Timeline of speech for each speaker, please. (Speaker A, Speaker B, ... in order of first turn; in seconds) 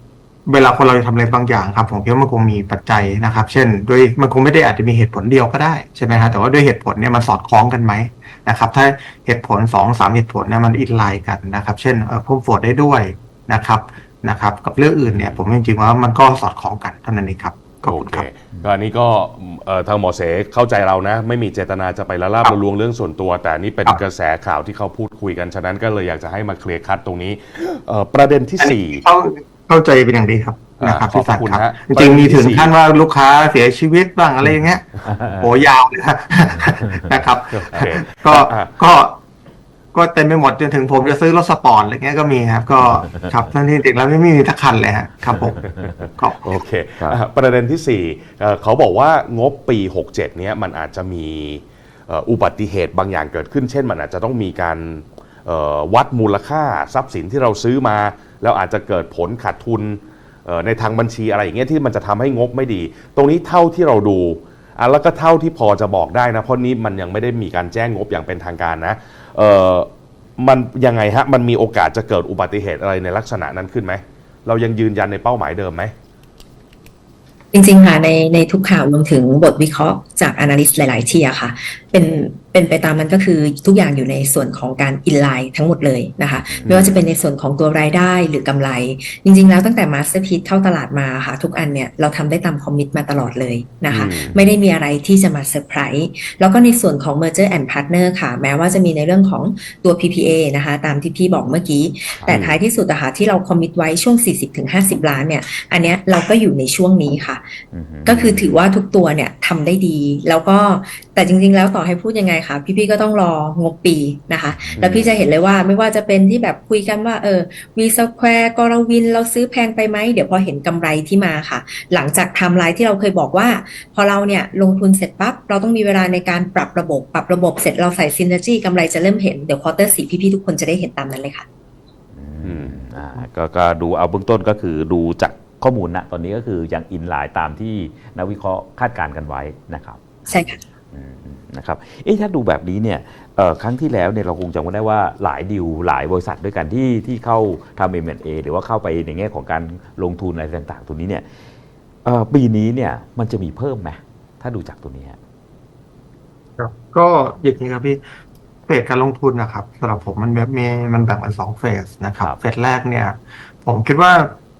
Speaker A: 0.5-18.3, 28.6-39.2, 39.9-46.4, 156.6-158.0, 158.7-164.3
Speaker B: 15.1-15.4, 17.8-29.0, 30.8-32.7, 37.5-38.7, 46.4-75.9, 86.7-87.0, 93.9-94.4, 108.1-108.5, 114.8-115.2, 132.4-132.8
Speaker C: 35.0-35.5, 36.6-37.0, 43.1-43.4, 86.4-86.7, 102.2-102.6, 107.7-108.4, 114.5-115.1, 132.1-140.2, 140.9-151.2, 152.0-155.2
Speaker D: 77.5-107.4, 108.0-131.4, 140.3-140.6